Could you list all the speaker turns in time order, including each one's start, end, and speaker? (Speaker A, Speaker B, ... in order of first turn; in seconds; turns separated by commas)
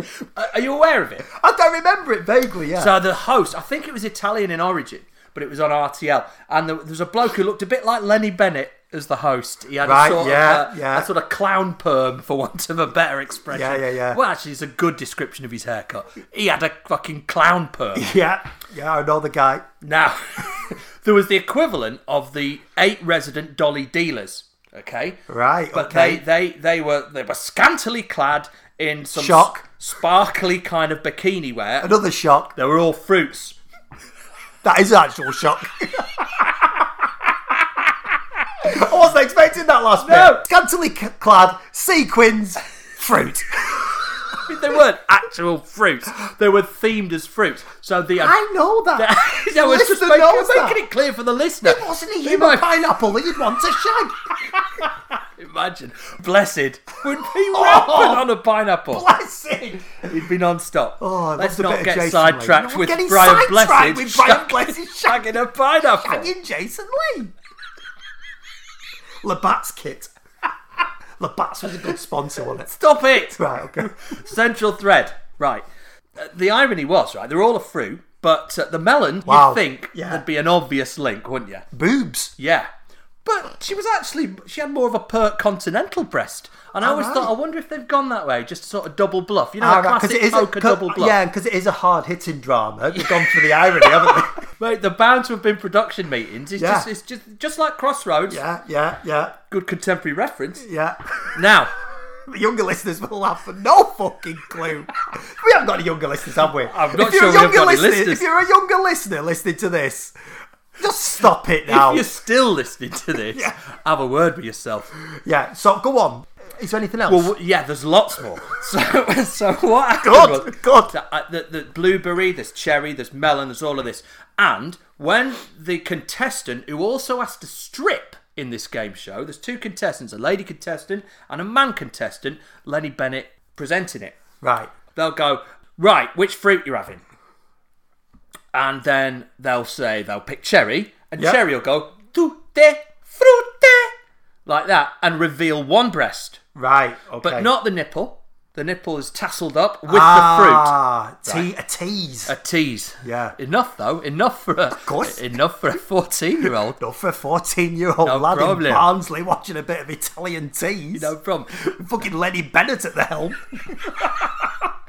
Speaker A: 0.3-1.3, Speaker B: 1.3-2.9, Speaker A: 2.8-18.1, Speaker B: 9.8-11.1, Speaker B: 13.5-14.2, Speaker B: 17.9-19.7, Speaker A: 19.8-25.2, Speaker B: 25.3-26.2, Speaker A: 25.7-31.9, Speaker B: 29.1-29.6, Speaker B: 31.8-32.5, Speaker A: 32.6-33.6, Speaker B: 34.6-36.9, Speaker B: 38.6-44.1, Speaker A: 40.0-40.4, Speaker A: 44.4-48.4, Speaker B: 48.2-50.8, Speaker A: 49.0-52.7, Speaker B: 51.6-54.9, Speaker A: 55.4-59.1, Speaker B: 57.5-58.3, Speaker B: 58.9-60.0, Speaker A: 60.0-66.3, Speaker B: 61.0-65.3, Speaker B: 66.0-67.3, Speaker B: 69.2-70.1, Speaker B: 71.2-73.9, Speaker A: 72.7-75.7, Speaker A: 76.2-81.7, Speaker B: 79.2-80.2, Speaker B: 81.7-82.3, Speaker A: 82.4-82.7, Speaker A: 83.2-91.2, Speaker B: 86.8-87.3, Speaker B: 89.6-94.4, Speaker A: 93.0-98.4, Speaker B: 96.6-96.9, Speaker B: 98.3-99.4, Speaker A: 99.5-100.7, Speaker B: 100.6-101.3, Speaker A: 101.3-101.7, Speaker B: 102.3-110.1, Speaker A: 106.6-108.2, Speaker B: 110.8-112.0, Speaker A: 111.7-114.9, Speaker B: 115.2-117.3, Speaker A: 117.1-134.2, Speaker B: 120.0-120.9, Speaker B: 134.4-134.7, Speaker A: 134.9-137.0, Speaker A: 138.5-143.9, Speaker A: 144.5-146.4, Speaker B: 146.6-147.5, Speaker A: 147.2-151.5, Speaker B: 149.9-152.3, Speaker A: 152.3-156.8, Speaker B: 153.0-153.4, Speaker B: 154.8-155.3, Speaker B: 156.8-164.5, Speaker A: 158.0-158.9, Speaker A: 160.9-161.6